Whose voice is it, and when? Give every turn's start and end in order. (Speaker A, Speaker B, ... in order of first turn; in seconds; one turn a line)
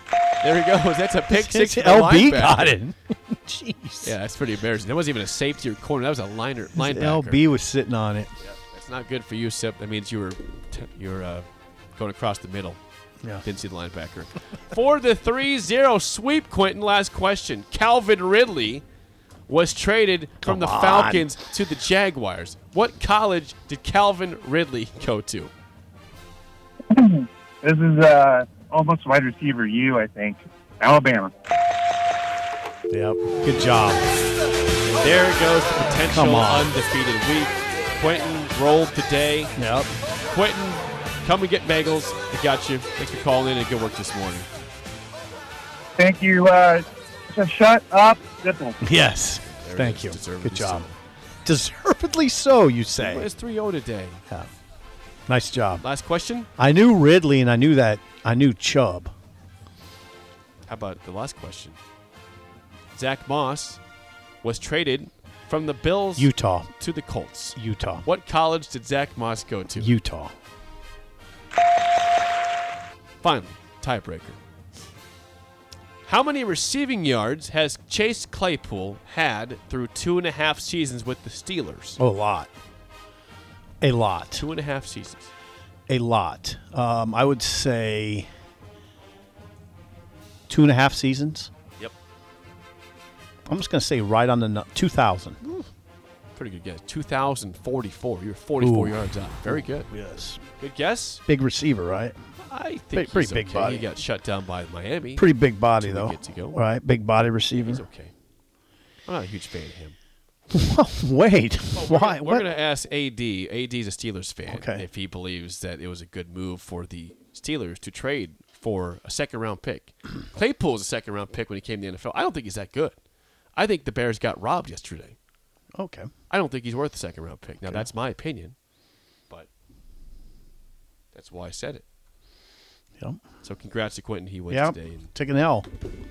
Speaker A: 0.4-2.8
Speaker B: 1.3-4.2
Speaker A: 4.0-7.4
Speaker B: 6.8-8.3
Speaker A: 8.4-12.8
Speaker A: 13.4-18.8
Speaker A: 19.5-25.5
Speaker B: 20.4-21.3
Speaker C: 26.9-31.3
Speaker B: 32.9-34.1
Speaker A: 34.9-39.5
Speaker B: 36.1-36.7
Speaker B: 39.6-39.9
Speaker A: 40.3-44.5
Speaker C: 46.0-48.8
Speaker B: 48.8-50.9
Speaker A: 49.3-51.0
Speaker B: 51.5-53.3
Speaker A: 53.0-54.2
Speaker B: 55.3-55.8
Speaker A: 55.8-56.5
Speaker B: 56.6-59.1
Speaker A: 60.7-61.8
Speaker A: 62.9-63.8
Speaker A: 64.4-69.9
Speaker B: 66.2-66.7
Speaker B: 67.6-68.1
Speaker B: 69.8-70.3
Speaker A: 73.2-74.4
Speaker A: 76.0-82.0
Speaker B: 82.0-82.5
Speaker B: 83.8-84.4
Speaker A: 84.3-85.3
Speaker B: 85.9-88.3
Speaker B: 90.5-91.5
Speaker B: 93.5-95.6
Speaker A: 96.4-99.9
Speaker B: 98.6-100.4
Speaker A: 100.6-101.2
Speaker B: 101.3-102.2
Speaker A: 102.4-106.6
Speaker B: 102.9-104.0
Speaker B: 105.2-107.8
Speaker A: 107.6-108.1
Speaker A: 109.1-110.0
Speaker B: 110.5-112.5
Speaker A: 111.7-123.0
Speaker B: 114.5-114.8
Speaker A: 123.5-125.2
Speaker B: 125.8-126.1
Speaker A: 126.3-128.6
Speaker A: 131.1-131.8
Speaker A: 133.4-135.1
Speaker B: 134.5-135.7